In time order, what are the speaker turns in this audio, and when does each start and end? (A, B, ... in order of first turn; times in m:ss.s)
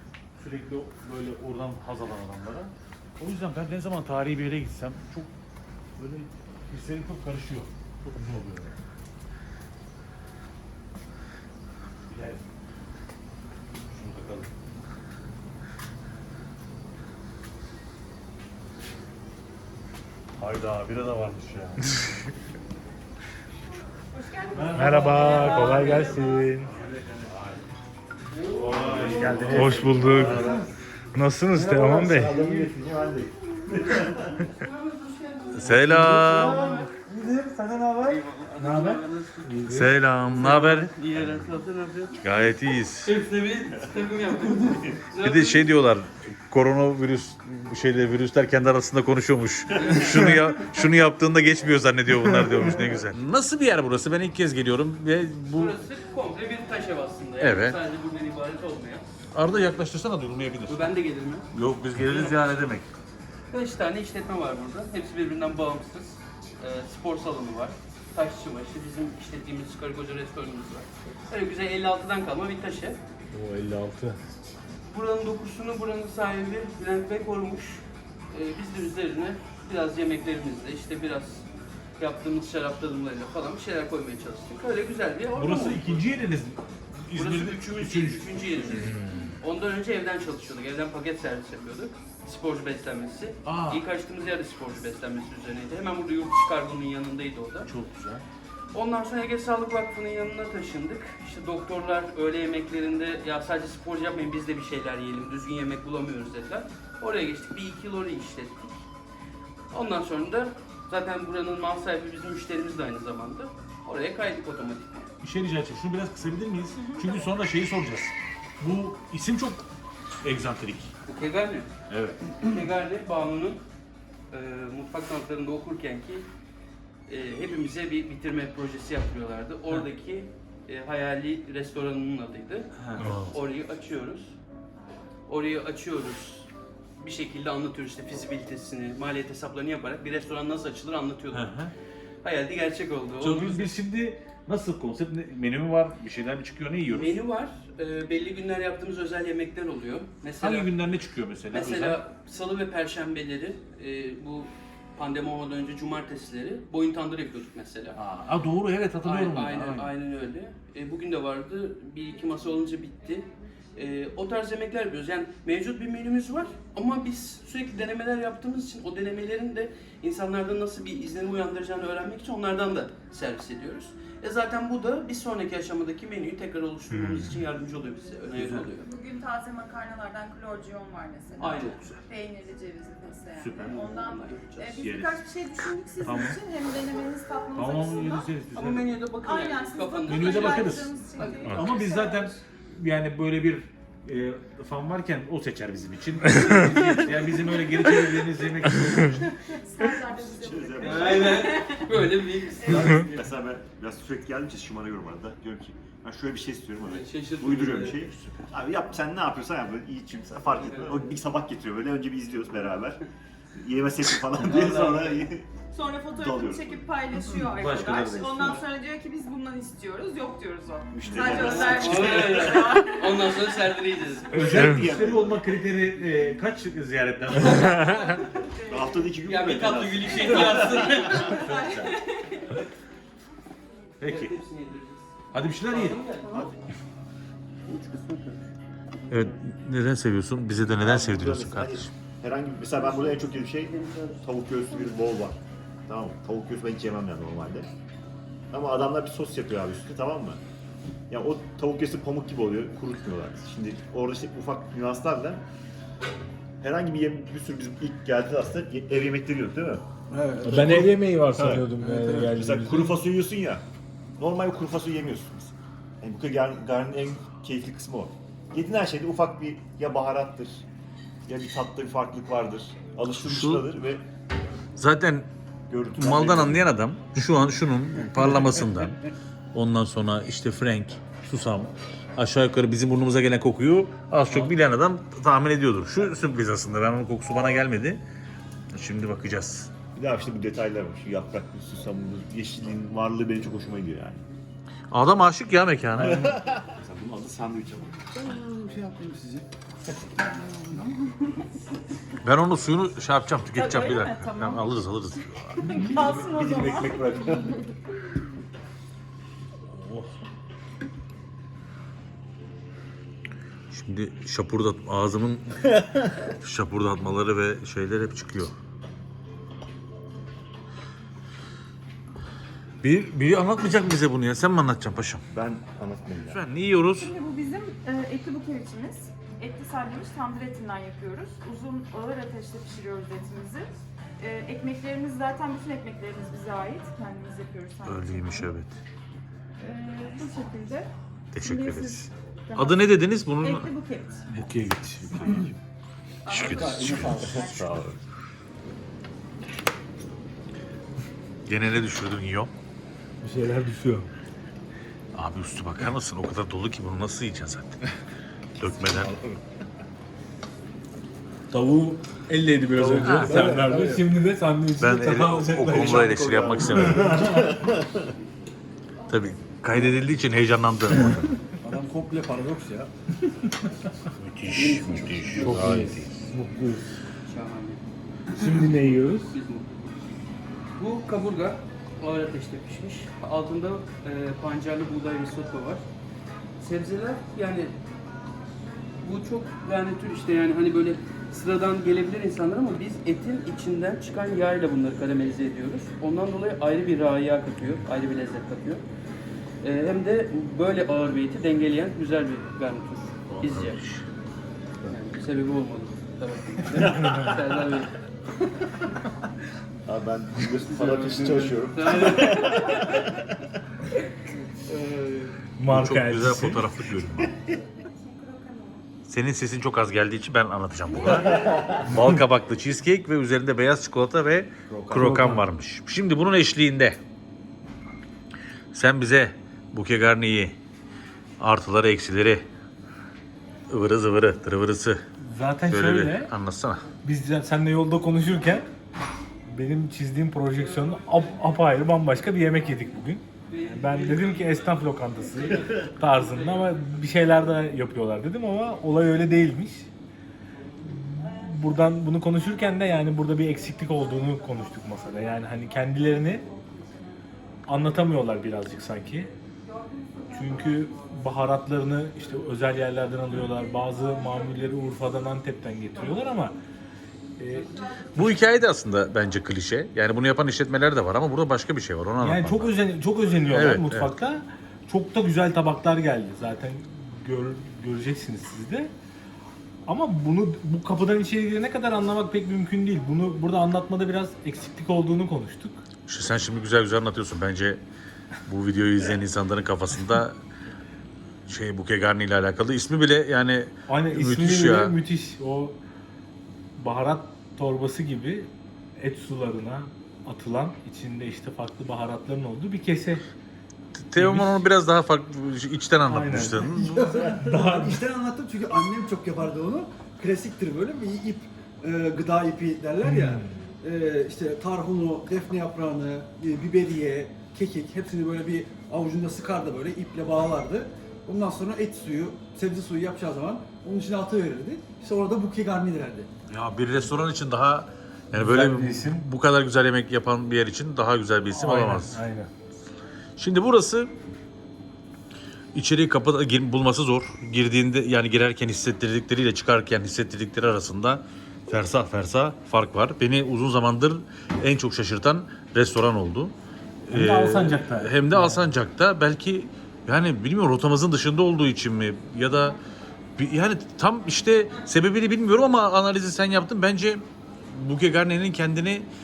0:00.4-0:05.3 A
0:06.0-0:08.7 A
0:12.1-0:12.4 A
0:13.9-0:14.5 A
0:20.4-0:22.0 A
0:24.1-0:26.5 B
0:24.6-0:26.7 C
0:24.6-0:26.0 D
0:26.9-0:27.6 A
0:28.3-0:30.6 D
0:28.6-0:30.7 E
0:28.7-0:30.6 A
0:29.1-0:30.4 C
0:31.2-0:32.4 C
0:31.5-0:34.5 E
0:32.4-0:32.7 F
0:34.6-0:36.9 D
0:35.5-0:36.8 A
0:36.0-0:38.2 E
0:38.0-0:39.6 D
0:38.6-0:39.9 C
0:39.7-0:41.4 A
0:40.3-0:45.8 D
0:42.2-0:43.1 A
0:45.2-0:55.8 A
0:49.8-0:50.5 D
0:55.6-0:59.8 D
0:57.4-0:57.8 A
0:59.3-1:00.9 A
1:00.7-1:01.5 D
1:01.5-1:02.9 A
1:02.1-1:02.4 D
1:03.5-1:13.0 D
1:13.3-1:14.2 C
1:14.8-1:21.5 D
1:22.0-1:26.0 D
1:25.4-1:29.3 A
1:27.1-1:37.7 D
1:33.4-1:33.8 A
1:37.7-1:38.2 A
1:38.7-1:48.8 D
1:49.7-1:55.1 D
1:55.2-1:59.6 A
1:56.8-1:57.2 B
2:00.2-2:00.9 A
2:01.0-2:01.7 D
2:01.9-2:02.2 A
2:02.3-2:03.6 D
2:04.3-2:06.3 D
2:07.1-2:14.3 D
2:12.8-2:13.4 A
2:15.3-2:21.5 D
2:21.3-2:21.7 A
2:22.2-2:23.8 D
2:23.2-2:27.2 A
2:26.8-2:30.7 D
2:30.4-2:32.0 A
2:31.5-2:38.0 D
2:38.0-2:39.9 A
2:39.0-2:58.9 D
2:58.3-2:58.7 A
2:58.8-3:08.3 B
3:01.4-3:01.8 D
3:01.4-3:02.0 A
3:03.4-3:03.8 A
3:03.6-3:04.8 D
3:04.8-3:05.2 A
3:06.0-3:06.4 A
3:07.6-3:08.9 A
3:08.5-3:11.7 D
3:09.2-3:12.4 B
3:10.1-3:19.3 A
3:17.1-3:17.6 D
3:19.4-3:21.9 B
3:20.3-3:21.5 E
3:20.8-3:23.3 D
3:22.6-3:33.0 E
3:26.8-3:28.1 D
3:30.6-3:31.2 D
3:33.6-3:35.5 E
3:34.4-3:35.3 D
3:35.7-3:43.3 B
3:36.1-3:36.8 E
3:37.4-3:38.6 A
3:40.9-3:42.8 E
3:41.3-3:44.5 D
3:44.3-3:45.5 E
3:44.4-3:48.2 A
3:47.6-3:49.1 B
3:48.6-3:51.9 E
3:49.2-3:51.5 D
3:51.2-3:52.6 B
3:54.0-3:54.4 A
3:54.0-3:56.5 D
3:55.3-3:56.0 A
3:57.7-3:58.4 D
3:59.0-3:59.4 D
3:59.1-4:01.9 A
4:00.7-4:07.7 E
4:02.8-4:05.2 D
4:08.5-4:10.4 E
4:11.1-4:15.4 E
4:16.6-4:19.8 E
4:20.1-4:21.0 F
4:20.4-4:23.0 C
4:21.4-4:21.7 E
4:21.8-4:22.3 F
4:22.3-4:23.6 E
4:24.2-4:30.6 E
4:31.3-4:34.1 E
4:33.2-4:33.7 A
4:34.8-4:35.3 A
4:35.7-4:36.6 E
4:36.0-4:39.0 A
4:39.5-4:48.0 A
4:44.3-4:44.5 D
4:48.7-4:49.7 A
4:50.0-4:54.2 E
4:54.9-4:56.3 A
4:56.0-4:58.2 E
4:56.0-4:56.3 F
4:58.2-4:59.5 F
5:00.0-5:01.3 F
5:02.2-5:05.8 A
5:03.6-5:04.6 B
5:05.6-5:07.5 B
5:05.9-5:07.6 E
5:09.7-5:10.1 A
5:13.7-5:15.8 A
5:16.4-5:18.5 A
5:22.8-5:25.2 A
5:25.3-5:26.4 E
5:26.3-5:27.1 A
5:27.0-5:38.5 B
5:37.8-5:38.8 A
5:39.6-5:44.3 B
5:41.3-5:43.7 A
5:44.3-5:45.6 A
5:44.4-5:44.9 C
5:46.3-5:47.8 B
5:46.3-5:47.5 A
5:46.3-5:47.4 F
5:47.1-5:48.0 E
5:51.5-5:52.5 A
5:53.2-5:54.1 C
5:55.1-5:57.8 A
5:58.6-5:59.1 A
5:58.8-5:59.4 E
6:01.5-6:06.0 C
6:02.8-6:04.1 F
6:03.0-6:03.5 A
6:04.8-6:07.1 A
6:05.6-6:08.1 E
6:06.8-6:07.3 C
6:09.1-6:11.3 A
6:11.6-6:12.9 F
6:14.1-6:16.2 A
6:14.5-6:15.9 D
6:15.4-6:16.8 C
6:17.3-6:17.8 D
6:18.3-6:19.4 C
6:18.5-6:19.9 D
6:20.8-6:25.8 D
6:26.6-6:27.8 D
6:29.0-6:38.8 D
6:39.6-6:43.8 D
6:43.3-6:44.0 A
6:44.9-6:48.0 D
6:46.8-6:47.4 C
6:49.8-6:53.2 E
6:50.5-6:53.1 D
6:54.3-6:55.3 D
6:55.6-6:56.6 C
6:55.7-6:57.3 A
6:57.7-6:58.8 B
6:59.1-7:07.0 A
7:01.2-7:01.7 E
7:04.7-7:05.2 E
7:04.9-7:05.5 C
7:08.7-7:10.6 A
7:11.4-7:12.4 A
7:13.7-7:15.0 A
7:15.2-7:16.3 C
7:15.7-7:16.9 A
7:17.0-7:18.7 C
7:19.5-7:29.9 C
7:20.5-7:26.9 D
7:30.8-7:36.5 C
7:37.7-7:39.3 C
7:40.3-7:46.6 C
7:47.4-7:47.7 C
7:47.6-7:47.9 D
7:48.2-7:52.8 A
7:52.2-7:58.9 C
7:53.5-7:54.1 A
7:59.9-8:05.8 C
8:06.1-8:07.8 A
8:08.5-8:10.4 A
8:11.5-8:15.0 A
8:13.9-8:15.8 C
8:16.8-8:23.3 C
8:24.0-8:27.2 A
8:24.2-8:24.7 C
8:26.1-8:26.7 C
8:26.6-8:46.3 F
8:27.3-8:28.0 C
8:33.0-8:33.5 C
8:46.5-8:52.2 A
8:48.3-8:49.3 C
8:51.6-8:52.5 C
8:53.4-8:54.1 A
8:55.7-9:06.5 A
9:07.1-9:12.8 A
9:07.1-9:08.8 C
9:13.4-9:19.1 A